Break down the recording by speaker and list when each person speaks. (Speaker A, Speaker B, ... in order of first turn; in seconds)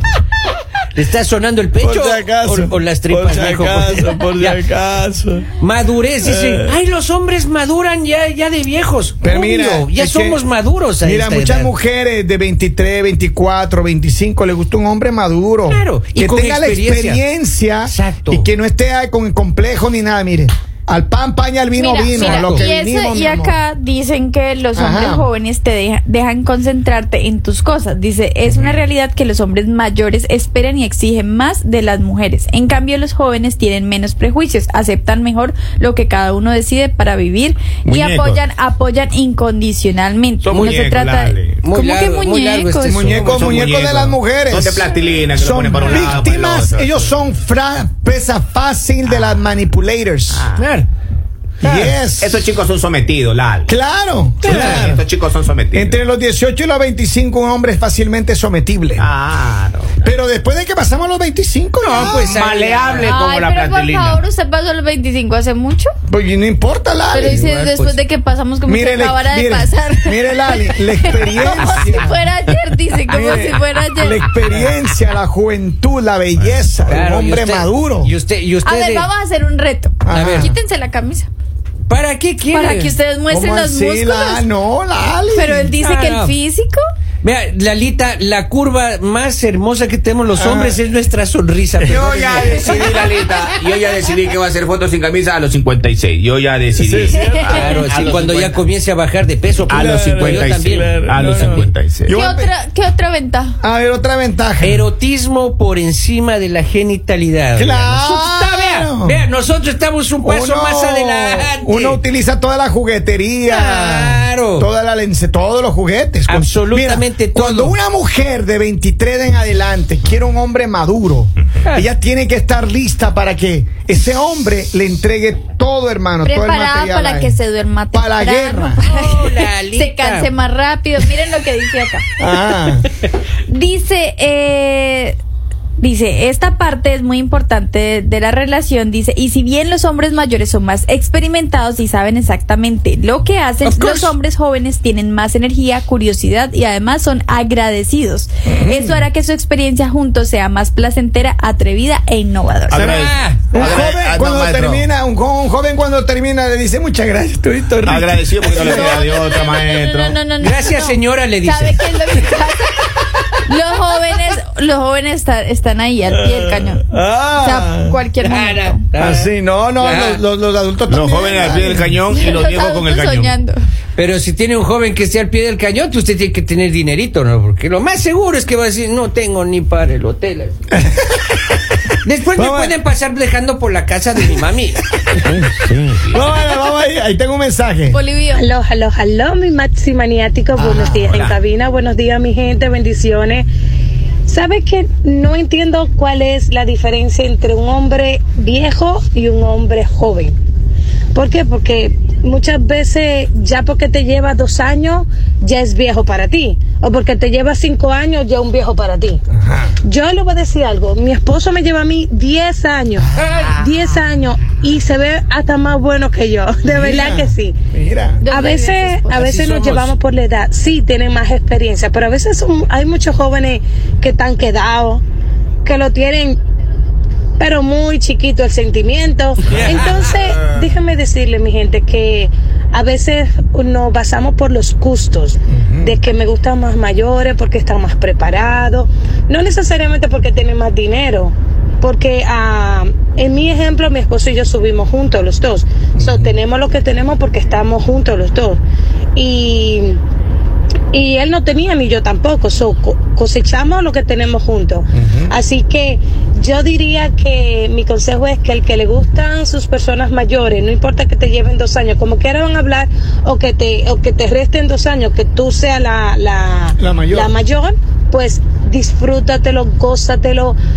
Speaker A: 0.9-4.6, 5.6-11.7, 15.7-17.2, 17.8-18.5, 22.1-22.7, 40.5-40.8, 41.6-43.6, 50.5-50.9, 51.6-51.9, 54.4-54.9, 61.8-63.2, 67.2-68.0, 76.9-79.1, 80.1-80.5, 81.9-82.9, 85.8-86.3, 87.2-93.0, 97.5-101.6, 104.6-112.0, 113.4-114.7, 116.3-117.8, 128.8-130.3, 143.6-144.1, 152.8-153.6, 160.4-162.2, 168.2-170.2, 174.0-180.5, 182.0-184.9, 213.2-213.5, 219.2-219.9, 229.5-230.1
Speaker B: 1.8-5.5, 6.2-6.8, 9.2-10.4, 11.0-23.6, 24.7-25.3, 42.9-50.4, 51.6-52.4, 53.6-55.0, 55.7-59.1, 60.0-62.4, 66.1-67.4, 68.7-72.3, 73.0-78.1, 80.0-80.5, 83.3-85.7, 90.4-90.8, 91.8-92.8, 96.8-97.7, 99.7-102.5, 103.6-104.9, 107.5-109.2, 110.2-127.4, 127.9-128.8, 132.2-132.9, 148.4-149.0, 152.7-159.0, 166.1-168.0, 169.0-172.0, 180.7-181.3, 182.3-182.8, 186.1-188.0, 190.6-191.0, 209.3-209.8, 216.6-218.2, 235.5-235.9, 246.0-246.3, 254.9-255.3, 266.8-267.3
Speaker C: 21.8-42.9, 63.0-65.9, 67.1-74.3, 78.6-81.3, 82.5-84.4, 85.3-86.8, 97.1-97.8, 102.1-103.6, 126.2-132.0, 133.5-135.2, 135.8-153.0, 158.4-162.8, 163.4-166.8, 167.4-168.8, 172.1-173.6, 187.9-188.4, 218.2-219.2
Speaker D: 37.8-38.4, 40.4-41.6, 43.1-47.1, 50.3-50.6, 52.0-53.7, 54.4-56.0, 59.0-60.1, 62.0-64.2, 76.4-76.7, 91.9-98.6, 99.7-102.2, 152.7-154.8, 157.8-160.2, 170.9-173.3, 185.2-186.3, 191.0-191.4
Speaker E: 188.3-193.4, 194.3-200.3, 201.1-209.2, 209.8-217.5, 218.2-225.0, 225.6-226.4, 227.4-248.6, 249.2-250.0, 250.9-270.6